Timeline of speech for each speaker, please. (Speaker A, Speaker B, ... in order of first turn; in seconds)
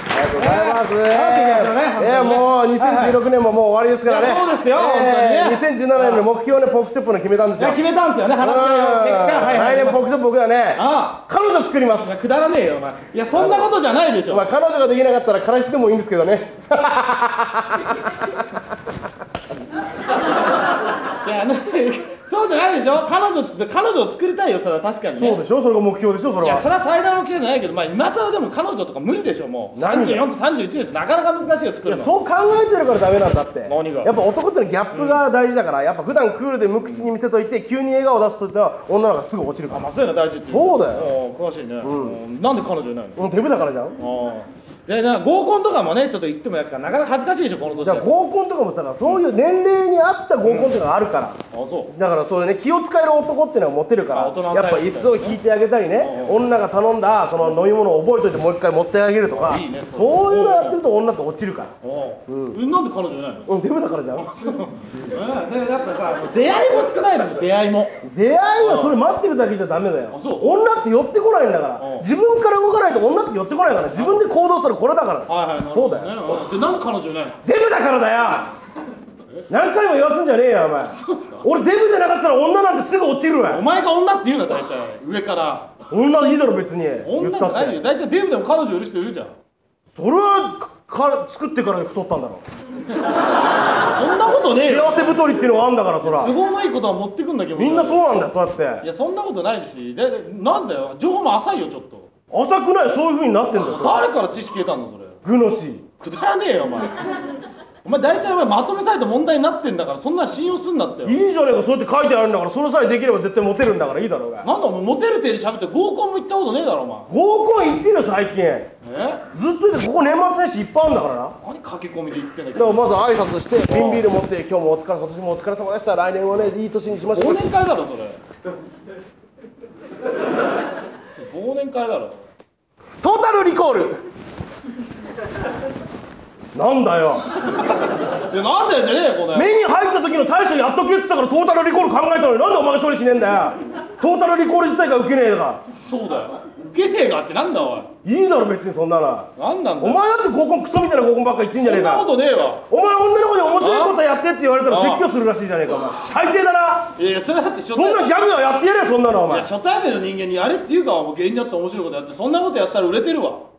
Speaker A: 0.1-7.8, 8.4-12.1, 13.3-13.7, 14.3-18.0, 25.2-26.6, 29.8-30.2, 31.9-39.9, 40.5-41.1, 41.8-42.2, 43.2-44.0, 47.8-51.4, 51.9-61.7, 62.3-62.6, 63.5-64.3, 68.0-76.2, 77.4-78.5, 79.5-83.6, 85.9-87.8, 90.0-92.4, 94.6-96.3, 97.5-98.8, 102.3-104.1, 105.2-105.8, 111.0-114.5, 117.1-118.7, 119.3-121.3, 122.5-127.5, 133.0-134.0, 136.5-137.2, 139.3-145.6, 148.1-149.3, 149.8-152.1, 152.7-156.9, 157.7-159.5
Speaker B: 0.3-3.2, 4.0-6.2, 7.6-10.0, 10.8-11.2, 12.0-14.5, 21.2-25.4, 26.4-32.1, 33.7-34.1, 34.9-35.2, 39.7-43.2, 44.0-48.1, 50.4-50.7, 51.5-51.9, 54.1-55.4, 56.0-56.4, 59.4-60.8, 61.8-63.5, 64.1-68.0, 68.6-69.0, 70.1-70.5, 71.8-72.1, 73.9-74.2, 75.3-77.4, 80.9-81.4, 83.5-85.7, 87.0-89.3, 93.7-95.2, 96.0-98.0, 98.8-102.1, 103.5-105.2, 106.0-107.1, 107.8-111.2, 114.4-117.1, 118.8-119.2, 121.4-123.0, 123.7-124.1, 127.1-128.2, 131.2-132.2, 138.1-139.5, 145.7-147.9, 149.4-150.0, 151.6-152.6, 153.6-154.0, 154.7-155.1, 157.0-158.2, 159.3-163.4